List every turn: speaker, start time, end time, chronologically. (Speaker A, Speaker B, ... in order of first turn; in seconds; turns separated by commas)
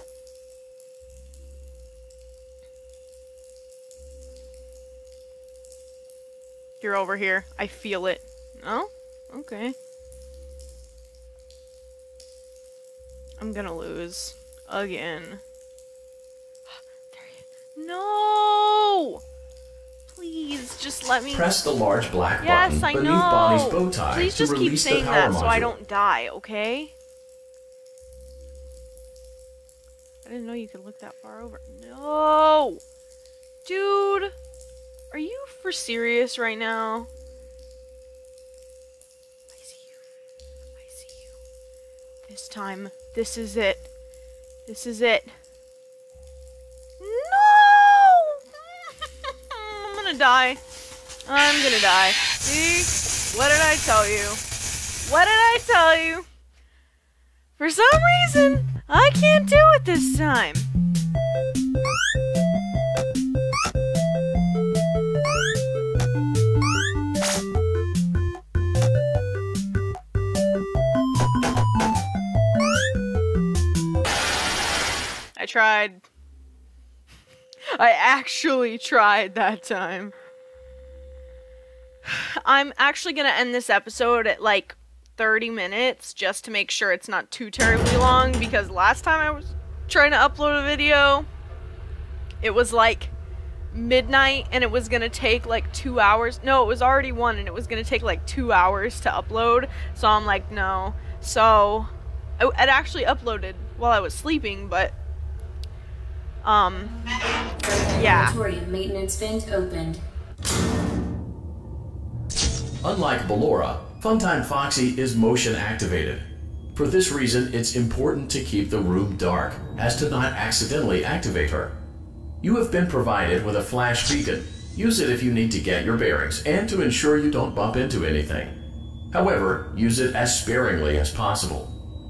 Speaker A: 6.8-9.7, Speaker A: 13.4-15.4, Speaker A: 17.1-19.2, Speaker A: 20.1-21.5, Speaker B: 21.3-25.7, Speaker A: 22.4-26.9, Speaker A: 30.2-32.8, Speaker A: 33.6-34.3, Speaker A: 35.1-37.1, Speaker A: 39.5-39.9, Speaker A: 40.8-41.2, Speaker A: 42.2-43.9, Speaker A: 44.7-45.3, Speaker A: 47.0-50.6, Speaker A: 51.2-54.4, Speaker A: 55.0-56.2, Speaker A: 57.6-60.7, Speaker A: 75.4-76.0, Speaker A: 77.7-80.1, Speaker A: 82.0-91.3, Speaker A: 92.4-93.1, Speaker A: 93.7-104.9, Speaker A: 106.4-106.9, Speaker C: 107.6-110.0, Speaker A: 108.0-108.3, Speaker B: 112.8-121.8, Speaker B: 122.4-128.6, Speaker B: 129.1-131.7